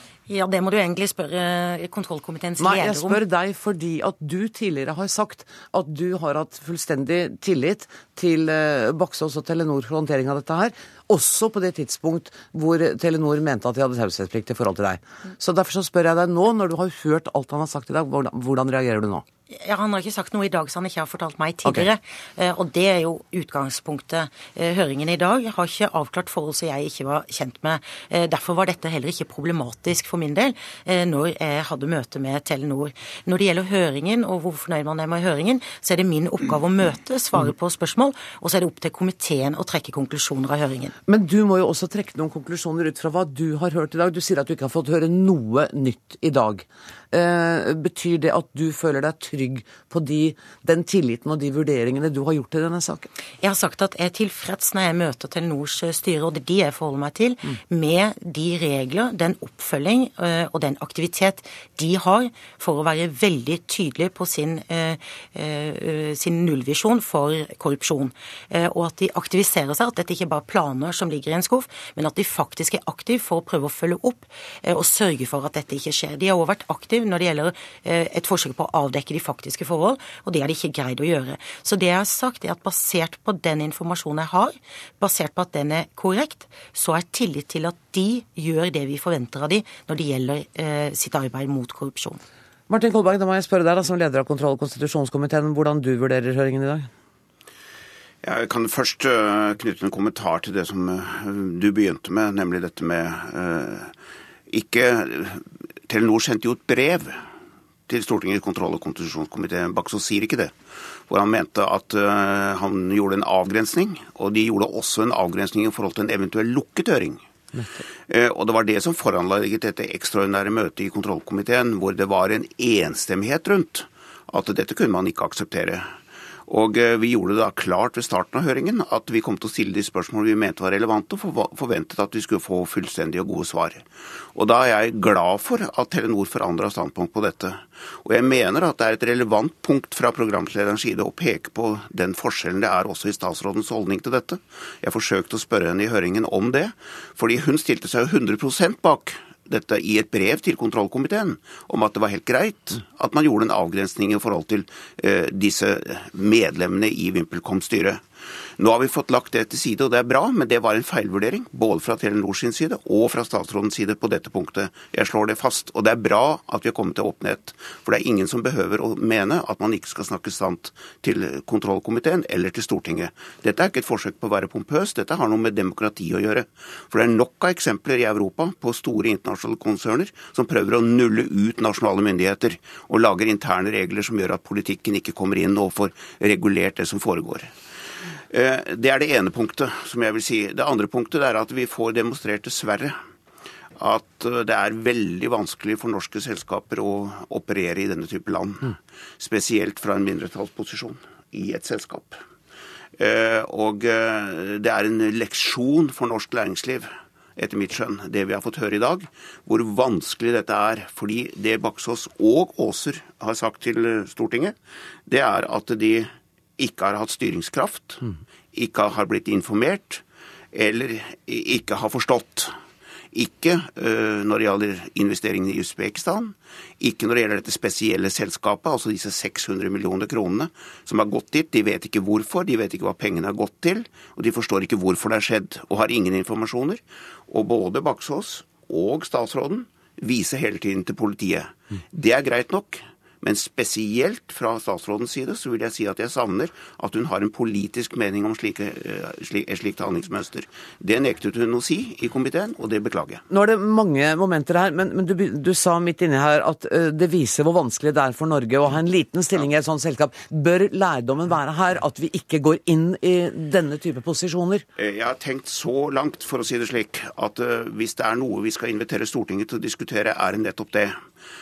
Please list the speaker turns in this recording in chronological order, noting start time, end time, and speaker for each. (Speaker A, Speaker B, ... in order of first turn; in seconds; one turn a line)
Speaker A: 0.3-3.2
Speaker B: 2.6-19.3
Speaker A: 19.5-40.9
Speaker B: 41.1-53.1
Speaker A: 53.4-92.2
Speaker B: 92.7-96.9
Speaker C: 98.2-103.9
Speaker C: 104.5-107.2
Speaker C: 107.9-110.5
Speaker C: 111.1-117.2
Speaker B: 117.5-117.8
Speaker C: 118.1-158.0
Speaker C: 158.6-187.5
Speaker C: 188.3-193.0
Speaker C: 193.8-202.2
Speaker C: 203.0-214.6
Speaker C: 215.1-222.5
Speaker C: 223.1-253.2
Speaker B: 253.3-264.6
Speaker C: 264.8-271.0